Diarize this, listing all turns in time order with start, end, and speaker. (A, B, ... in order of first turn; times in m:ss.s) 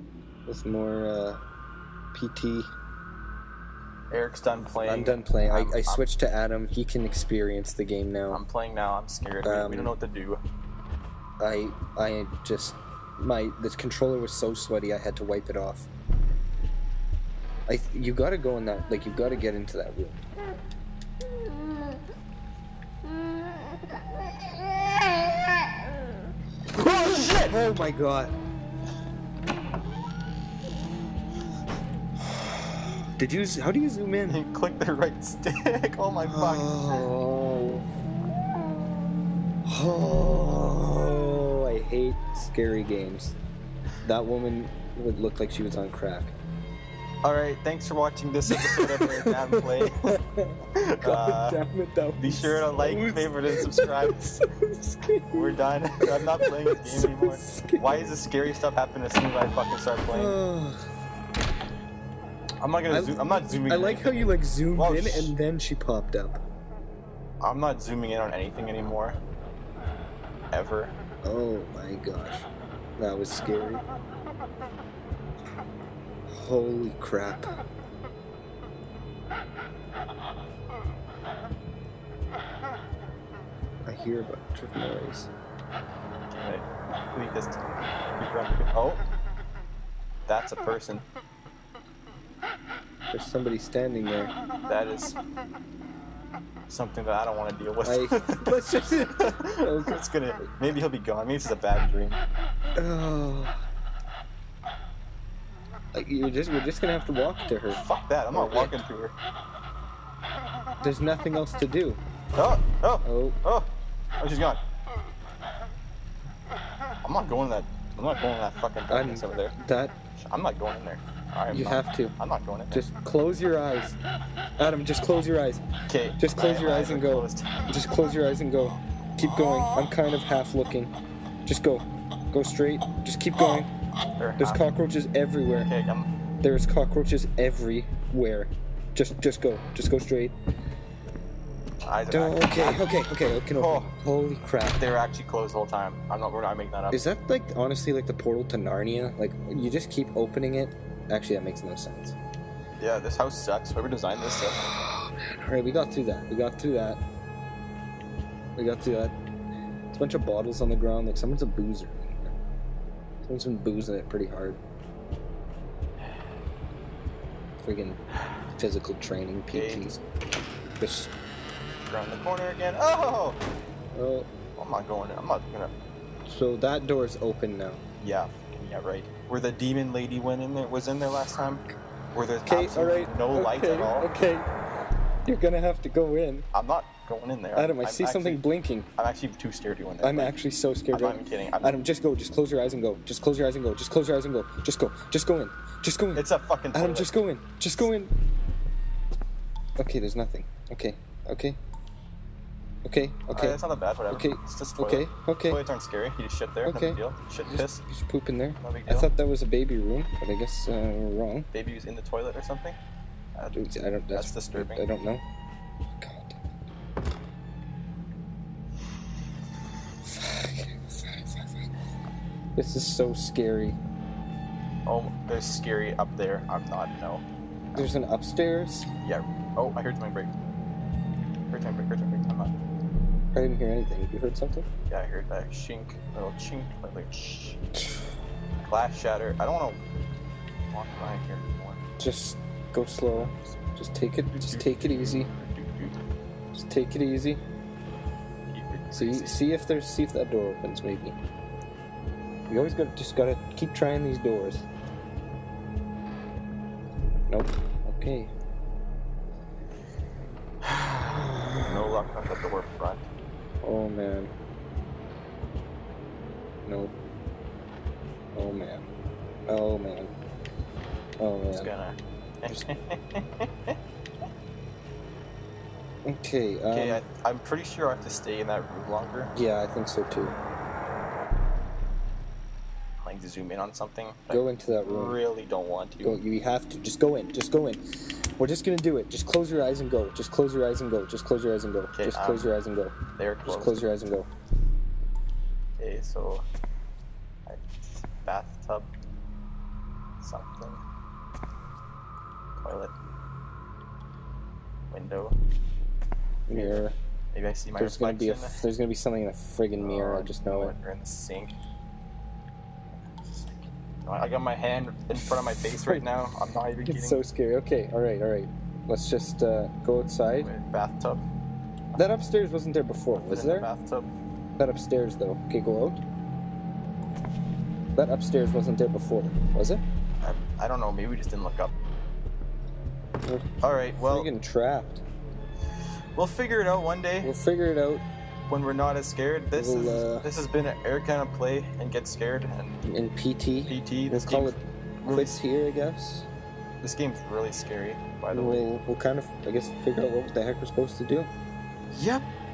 0:00.5-0:01.4 A
0:02.1-0:02.7 A
0:04.1-0:06.0 B
0:04.8-0:08.4 A
0:08.3-0:10.4 B
0:09.4-0:09.9 A
0:11.4-0:15.9 A
0:17.7-0:20.2 A
0:27.0-0:28.4 A
0:33.2-0:34.4 A
0:34.3-0:37.1 B
0:36.3-0:37.9 A
0:39.7-0:43.4 A
0:44.0-0:46.4 A
0:47.2-0:50.2 B
0:48.5-0:55.6 A
0:50.8-0:51.6 B
0:52.2-0:54.4 B
0:55.3-1:00.4 B
0:56.2-0:58.1 A
1:00.1-1:00.8 A
1:02.6-1:05.3 B
1:02.9-1:06.4 A
1:07.4-1:09.2 B
1:10.5-1:11.0 B
1:11.2-1:12.4 A
1:13.0-1:13.8 A
1:16.3-1:17.5 A
1:23.9-1:25.3 A
1:26.3-1:27.6 B
1:28.2-1:29.0 B
1:30.3-1:31.1 B
1:33.1-1:34.3 A
1:34.7-1:35.2 B
1:36.7-1:42.2 B
1:37.8-1:40.0 A
1:42.8-1:43.6 A
1:45.9-1:48.8 A
1:47.7-1:49.2 B
1:50.8-1:52.0 A
1:52.4-1:53.7 B
1:53.0-1:53.4 A
1:54.2-1:54.6 B
1:57.0-1:59.6 B
1:58.9-2:00.0 A
2:00.2-2:02.8 B
2:01.5-2:02.1 A
2:02.7-2:04.0 A
2:04.6-2:05.6 A
2:05.9-2:07.5 B
2:06.2-2:10.9 A
2:11.5-2:13.7 A
2:14.2-2:14.7 B
2:14.4-2:15.7 A
2:15.6-2:16.1 B
2:16.4-2:20.4 A
2:21.9-2:22.9 B
2:22.1-2:24.9 A
2:23.5-2:23.9 B
2:24.8-2:27.0 B
2:26.9-2:32.2 A
2:32.8-2:34.7 B
2:34.4-2:37.0 A
2:38.6-2:39.2 A
2:39.9-2:42.3 A
2:43.2-2:44.6 A
2:47.6-2:48.0 A
2:48.5-2:50.0 A
2:49.5-2:49.9 B
2:50.8-2:51.1 A
2:51.9-2:53.4 B
2:54.0-2:54.3 A
2:54.6-2:55.7 B
2:56.3-2:57.8 A
2:58.0-3:04.1 B
3:02.5-3:04.5 A
3:05.3-3:06.5 A
3:06.5-3:08.4 B
3:07.6-3:08.9 A
3:09.0-3:10.4 B
3:10.0-3:18.1 A
3:10.9-3:11.8 B
3:16.2-3:17.1 B
3:19.8-3:21.6 A
3:22.8-3:25.6 A
3:23.3-3:27.8 B
3:26.6-3:31.5 A
3:28.6-3:29.1 B
3:31.5-3:32.8 B
3:33.4-3:33.6 B
3:33.5-3:35.2 A
3:34.1-3:34.8 B
3:36.0-3:36.4 A
3:40.0-3:41.7 A
3:42.6-3:43.8 A
3:44.9-3:47.9 B
3:47.8-3:48.9 A
3:49.0-3:50.4 B
3:51.5-3:52.6 B
3:53.3-3:54.7 A
3:54.9-3:57.6 B
3:58.6-3:59.8 B
4:00.7-4:01.8 B
4:02.0-4:05.3 A
4:04.3-4:06.0 B
4:06.5-4:07.4 A
4:08.5-4:09.4 B
4:08.9-4:11.2 A
4:12.5-4:14.7 A
4:17.3-4:18.3 A
4:21.0-4:21.6 A
4:21.6-4:23.1 B
4:23.6-4:24.3 A
4:26.7-4:27.0 A
4:28.4-4:28.9 A
4:29.5-4:30.1 A
4:31.2-4:31.7 A
4:31.5-4:33.8 B
4:36.0-4:37.0 A
4:36.7-4:39.3 B
4:39.4-4:40.4 A
4:43.0-4:46.2 B
4:44.3-4:45.2 A
4:46.0-4:47.8 A
4:48.4-4:54.3 A
4:51.9-4:52.5 B
4:53.2-4:53.9 B
4:55.8-4:56.4 B
4:57.5-4:58.9 B
5:00.2-5:00.8 B
5:02.6-5:02.9 B
5:04.9-5:05.4 B
5:06.5-5:07.0 A
5:06.5-5:08.6 B
5:07.8-5:10.8 A
5:09.8-5:11.6 B
5:13.0-5:17.2 B
5:15.1-5:16.1 A
5:16.8-5:20.5 A
5:20.4-5:21.2 B
5:22.0-5:23.7 A
5:23.2-5:24.1 B
5:24.6-5:26.0 A
5:28.0-5:29.8 A
5:30.2-5:31.7 B
5:33.2-5:35.0 A
5:33.6-5:34.3 B
5:36.2-5:37.3 B
5:37.2-5:38.0 A
5:38.5-5:42.8 B
5:39.5-5:40.3 A
5:42.8-5:46.3 A
5:43.6-5:45.4 B
5:46.8-5:48.7 B
5:48.3-5:51.3 A
5:51.9-5:52.2 B